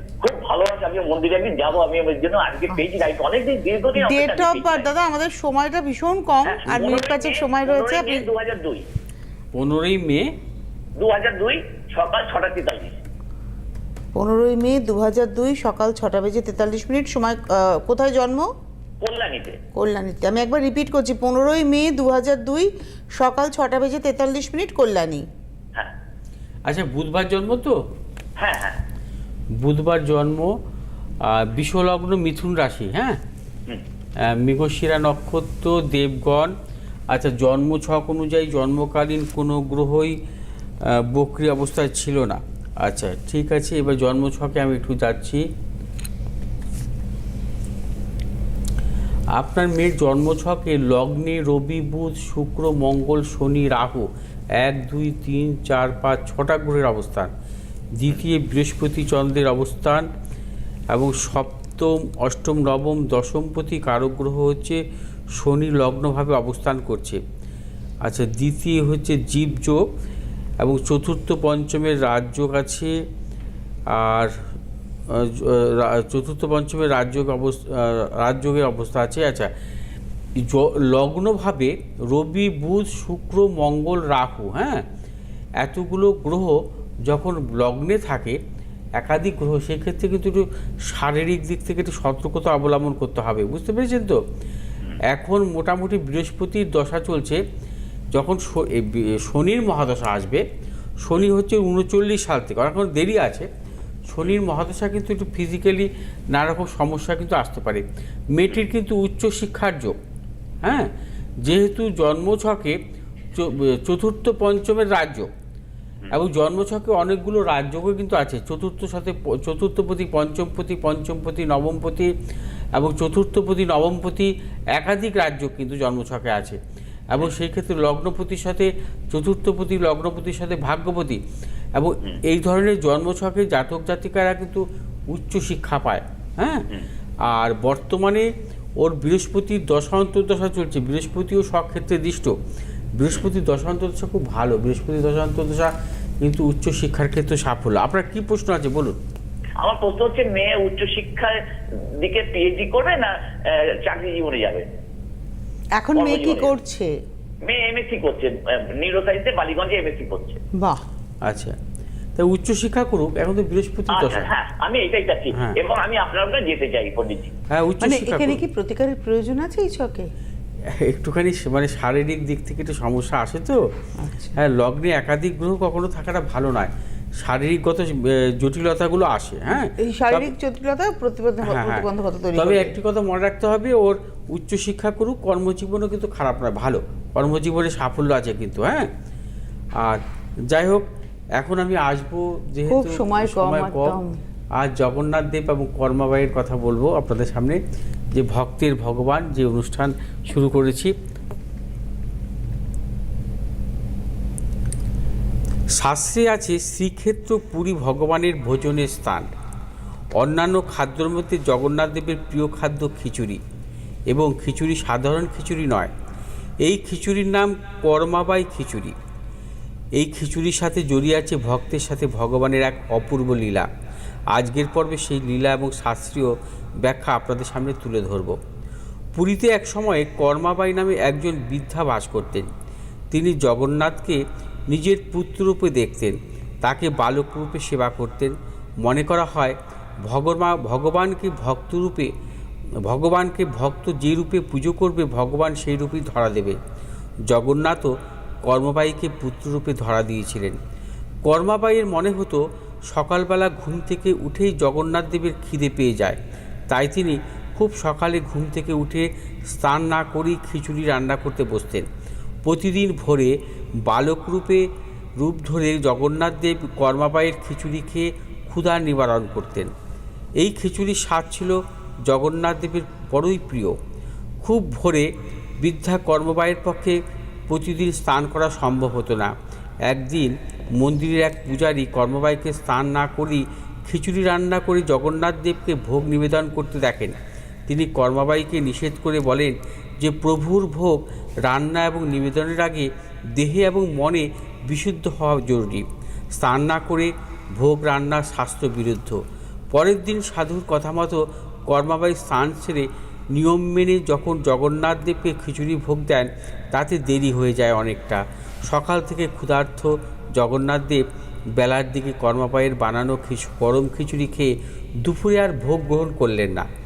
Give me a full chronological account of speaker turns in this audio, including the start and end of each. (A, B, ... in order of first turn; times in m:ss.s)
0:00.2-0:04.9 A
0:04.0-0:08.3 B
0:06.5-0:08.8 A
0:09.6-0:10.3 C
0:11.0-0:13.0 A
0:14.2-0:18.5 B
0:19.0-0:19.6 A
0:19.8-0:25.2 B
0:26.7-0:27.8 C
0:28.4-0:28.8 A
0:29.6-0:30.5 C
0:31.2-0:33.2 C
0:34.2-0:36.5 C
0:37.1-0:40.2 C
0:40.8-0:45.5 C
0:49.4-0:54.1 C
0:54.6-0:57.3 C
0:58.0-1:00.1 C
1:00.9-1:04.8 C
1:05.4-1:07.2 C
1:08.0-1:09.9 C
1:10.6-1:13.0 C
1:13.9-1:14.4 C
1:15.1-1:19.5 C
1:20.4-1:24.9 C
1:25.6-1:28.4 C
1:29.0-1:34.2 C
1:35.1-1:37.4 C
1:38.1-1:40.4 C
1:41.0-1:43.5 C
1:44.1-1:50.0 C
1:50.6-1:50.9 C
1:51.4-1:52.8 C
1:53.4-1:55.3 C
1:56.1-2:02.1 C
2:02.7-2:06.6 C
2:07.1-2:11.2 C
2:11.8-2:16.7 C
2:17.2-2:22.3 C
2:23.0-2:29.0 C
2:29.6-2:31.3 A
2:32.0-2:34.7 A
2:35.8-2:36.9 B
2:36.0-2:36.5 A
2:37.4-2:40.4 A
2:41.2-2:41.6 C
2:42.2-2:44.3 C
2:43.9-2:47.3 A
2:47.5-2:48.4 C
2:47.8-2:50.1 B
2:50.8-2:53.6 C
2:54.0-2:54.4 B
2:54.4-3:00.3 C
2:59.6-3:02.8 B
3:01.4-3:08.9 C
3:09.8-3:10.8 C
3:11.4-3:14.0 C
3:12.7-3:14.2 B
3:14.6-3:17.6 C
3:18.1-3:20.9 C
3:25.8-3:29.3 C
3:30.2-3:33.4 C
3:34.1-3:35.9 C
3:36.6-3:39.0 C
3:40.0-3:43.7 C
3:44.3-3:48.4 C
3:49.2-3:52.5 C
3:53.1-4:02.1 C
4:02.9-4:06.6 C
4:07.3-4:07.9 C
4:08.4-4:10.6 C
4:11.3-4:16.2 C
4:16.7-4:21.9 C
4:22.4-4:24.7 C
4:25.2-4:29.7 C
4:30.4-4:33.8 C
4:34.4-4:39.3 C
4:39.9-4:47.2 C
4:47.7-4:59.2 C
4:59.7-5:11.0 C
5:11.6-5:16.7 C